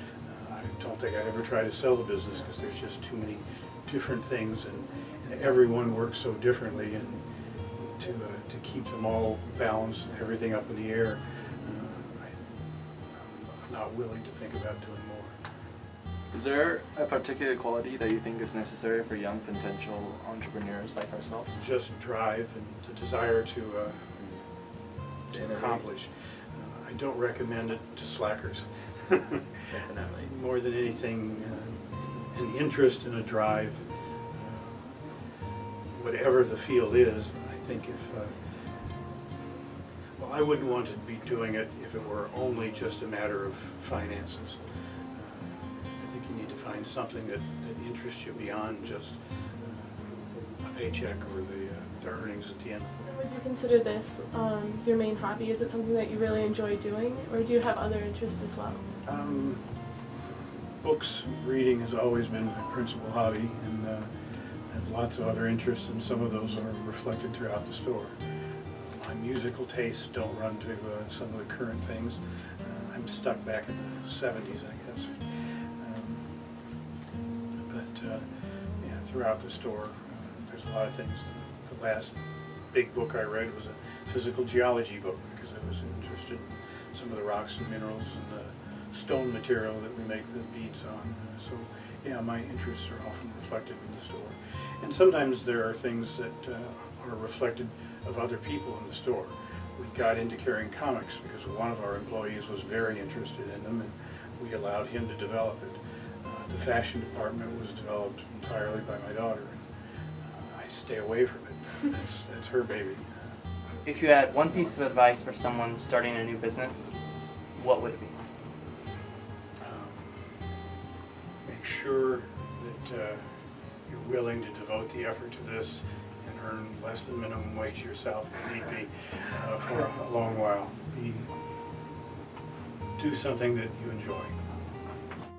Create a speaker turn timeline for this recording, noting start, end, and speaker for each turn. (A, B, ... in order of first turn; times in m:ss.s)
0:00.2-0:07.2 A
0:07.7-0:12.5 A
0:13.1-0:15.4 A
0:16.3-0:21.4 B
0:21.5-0:24.1 A
0:25.3-0:35.0 A
0:35.9-0:38.3 A
0:40.2-0:44.6 A
0:45.1-0:53.0 A
0:53.1-0:58.8 C
0:59.0-0:59.6 A
1:00.8-1:04.1 A
1:04.7-1:08.2 A
1:08.7-1:16.3 A
1:17.7-1:18.3 A
1:18.8-1:22.2 A
1:22.7-1:49.6 A
1:50.2-1:53.3 A
1:53.8-1:56.9 D
1:57.6-1:58.2 D
1:59.6-2:00.2 A
2:01.4-2:03.2 A
2:03.9-2:11.3 A
2:13.0-2:14.4 A